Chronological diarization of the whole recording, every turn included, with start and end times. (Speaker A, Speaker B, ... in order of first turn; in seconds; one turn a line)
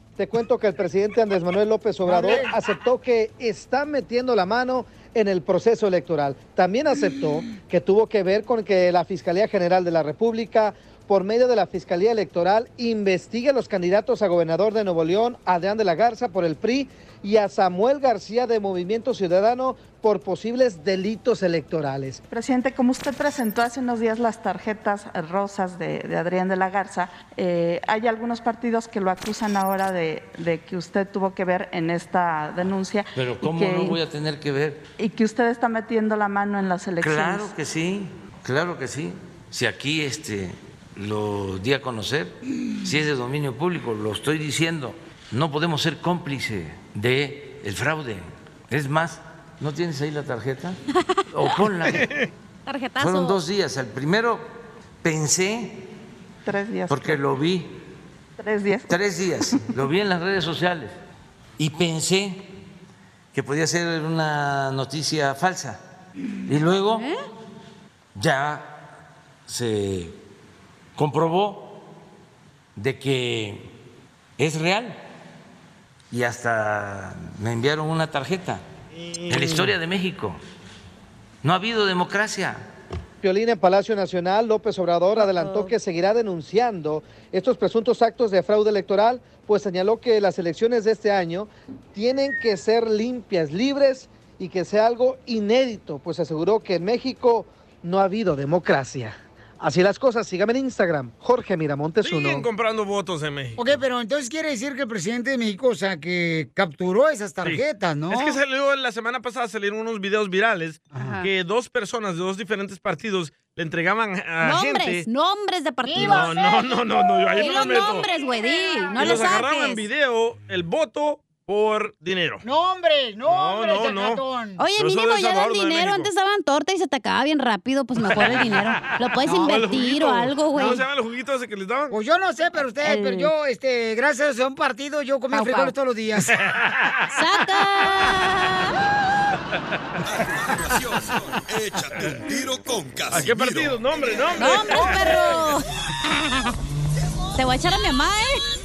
Speaker A: 0.2-22.2
Speaker B: 2.1-2.5
Speaker C: 22.3-34.0
Speaker D: 33.1-34.8
Speaker C: 35.0-37.5
Speaker D: 37.0-50.8
Speaker D: 51.3-52.1
Speaker E: 52.0-52.3
Speaker F: 52.7-53.4
Speaker D: 53.0-54.5
Speaker D: 55.0-55.8
Speaker C: 56.5-57.2
Speaker D: 56.9-57.7
Speaker C: 58.4-58.9
Speaker D: 58.9-61.0
Speaker D: 61.6-62.4
Speaker D: 63.3-65.8
Speaker D: 66.5-67.1
Speaker F: 66.9-67.2
Speaker D: 68.1-68.8
Speaker D: 69.5-70.1
Speaker D: 71.0-71.8
Speaker D: 72.8-73.7
Speaker D: 74.4-75.0
Speaker D: 76.1-78.6
Speaker E: 79.2-79.7
Speaker D: 79.3-80.4
Speaker D: 81.4-82.6
Speaker A: 83.2-102.5
Speaker F: 85.2-85.7
Speaker E: 102.0-103.7
Speaker B: 103.6-108.4
Speaker E: 107.4-115.1
Speaker F: 111.0-111.3
Speaker F: 114.4-116.6
Speaker B: 115.8-117.8
Speaker E: 116.0-118.1
Speaker F: 117.4-119.8
Speaker E: 119.0-122.4
Speaker B: 122.4-124.6
Speaker E: 123.3-124.2
Speaker F: 124.6-130.8
Speaker E: 124.8-126.1
Speaker E: 128.0-128.7
Speaker E: 129.2-131.9
Speaker B: 131.9-136.4
Speaker F: 132.8-133.3
Speaker F: 135.3-135.7
Speaker E: 136.3-137.0
Speaker F: 137.1-138.8
Speaker G: 140.1-143.8
Speaker E: 143.1-145.3
Speaker F: 144.4-145.7
Speaker F: 147.3-148.4